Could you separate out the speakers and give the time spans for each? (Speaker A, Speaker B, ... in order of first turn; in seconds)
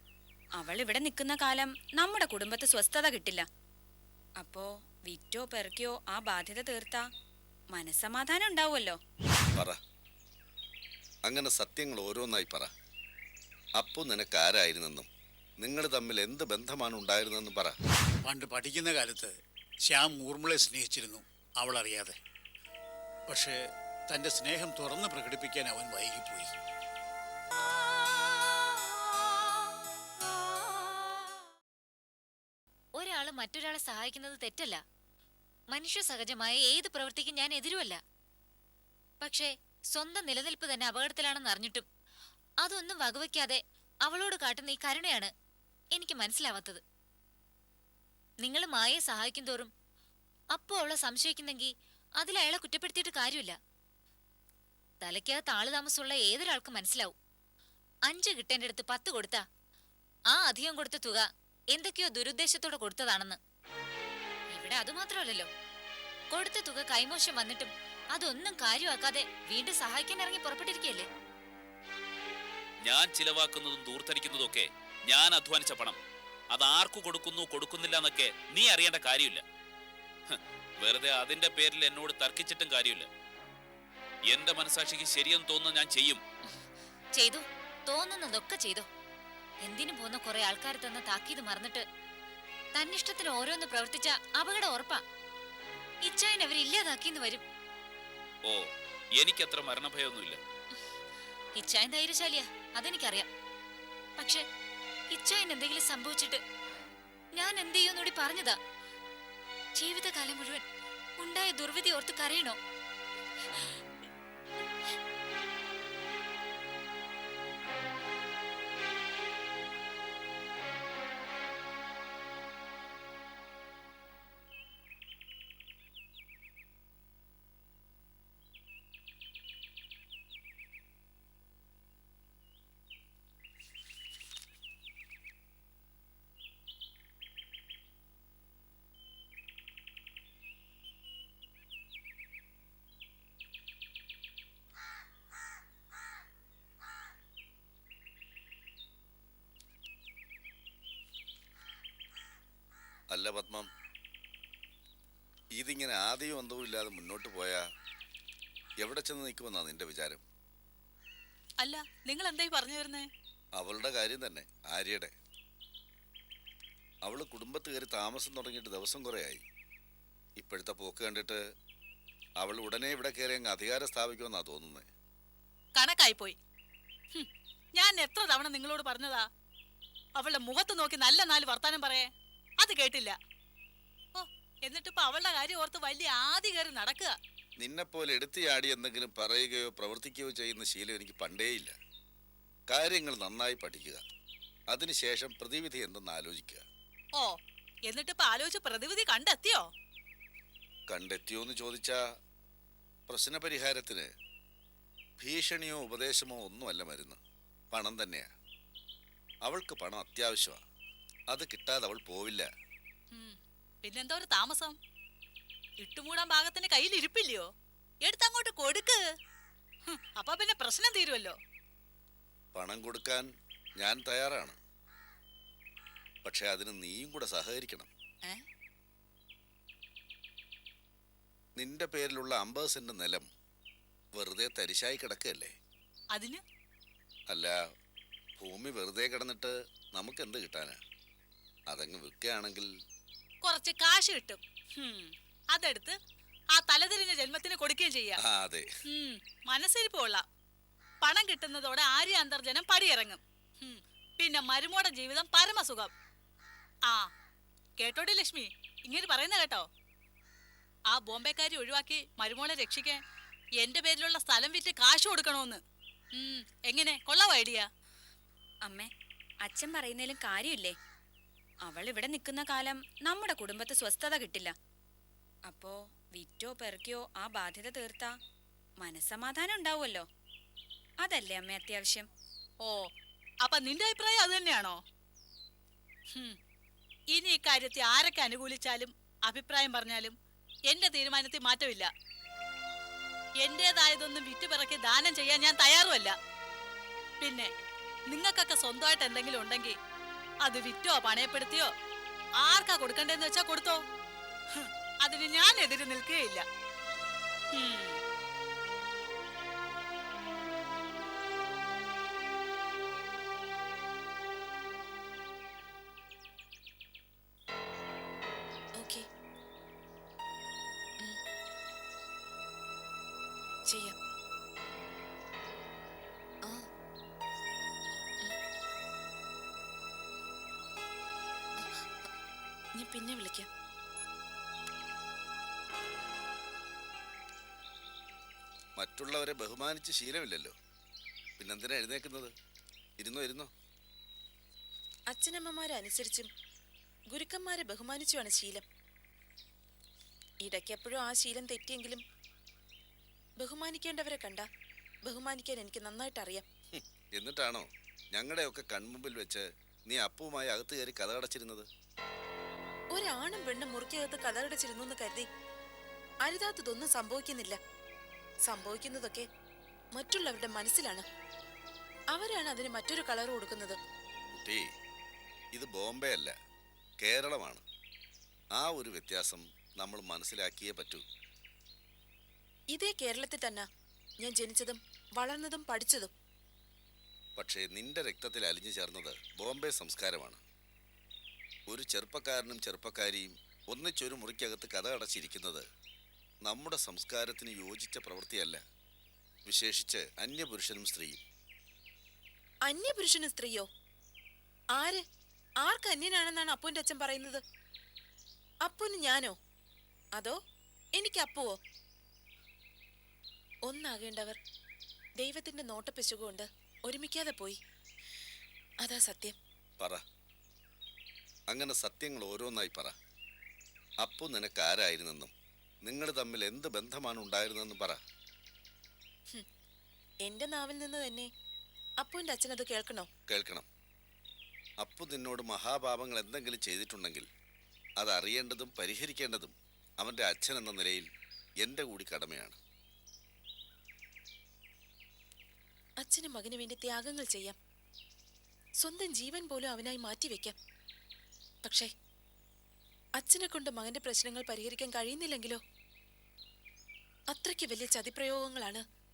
Speaker A: 0.6-3.5, 4.4-7.1, 7.7-9.0, 268.6-270.8, 271.6-274.6, 275.4-278.2, 278.8-280.1, 281.0-282.1
Speaker B: 11.3-12.7, 13.8-15.1, 15.6-17.8, 153.1-153.7, 155.6-157.6, 158.8-160.2, 163.6-165.1, 167.0-169.4, 170.4-171.4, 172.4-174.9, 187.6-191.7, 192.7-194.0, 194.7-196.6, 200.9-202.0, 203.1-204.1, 205.2-207.2, 207.7-208.3, 209.4-210.6, 211.3-212.5, 222.6-223.3, 223.8-224.6, 226.2-227.9, 231.6-233.3, 234.1-235.5, 237.3-237.6, 238.4-240.8, 241.7-242.7, 248.2-248.7, 338.8-340.5, 341.4-342.3, 343.0-343.5, 356.7-361.7, 374.4-374.7, 375.5-376.3, 377.0-377.6, 378.6-381.0, 387.4-390.4, 391.7-395.6, 396.4-398.6, 399.5-401.2, 421.5-422.9, 424.0-425.3, 425.9-428.0, 433.3-433.7, 434.8-437.3, 438.0-441.1, 441.6-442.6
Speaker C: 18.2-22.2, 23.3-26.5
Speaker D: 33.0-34.8, 35.7-38.0, 39.2-41.9, 42.6-45.3, 45.9-46.8, 48.4-49.7, 50.5-53.6, 55.0-57.1, 58.1-59.4, 60.3-63.4, 64.5-65.5, 66.3-71.1, 87.2-88.9, 89.6-91.8, 92.7-95.0, 96.0-97.4, 101.6-103.3, 104.2-104.5, 105.1-106.4, 107.3-108.6, 109.8-110.6, 111.2-112.6
Speaker E: 72.8-76.0, 76.5-79.4, 80.3-83.1, 84.3-86.2, 98.4-100.4
Speaker F: 161.6-163.1, 175.8-176.4, 177.1-179.3, 180.2-182.1, 182.6-183.2, 184.2-187.1, 197.9-199.7, 213.1-214.8, 215.8-217.5, 218.0-219.0, 219.9-221.3, 236.1-236.4, 243.4-246.0, 246.6-248.2, 248.9-250.2, 251.0-255.9, 257.8-259.6, 260.9-263.0, 263.6-265.6, 266.2-267.7, 283.4-284.8, 287.1-290.1, 290.7-291.9, 293.4-296.1, 297.2-297.5, 298.1-299.8, 300.4-301.7, 302.4-303.8, 304.5-306.4, 307.6-308.0
Speaker G: 318.8-319.0, 323.7-323.9, 332.8-333.5, 345.1-346.3, 347.1-348.6, 350.4-352.0, 353.4-354.5, 355.1-356.4, 362.9-365.3, 366.2-367.6, 368.4-369.3, 369.9-371.0, 372.1-373.8, 382.7-383.7, 384.2-386.1, 402.7-403.7, 404.8-405.0, 405.6-407.4, 408.6-409.3, 411.0-411.6, 413.7-414.4, 415.2-417.6, 418.8-419.4, 430.2-431.3, 432.0-433.1, 446.0-447.6, 448.8-450.6, 451.6-451.9, 453.2-455.6, 457.3-458.8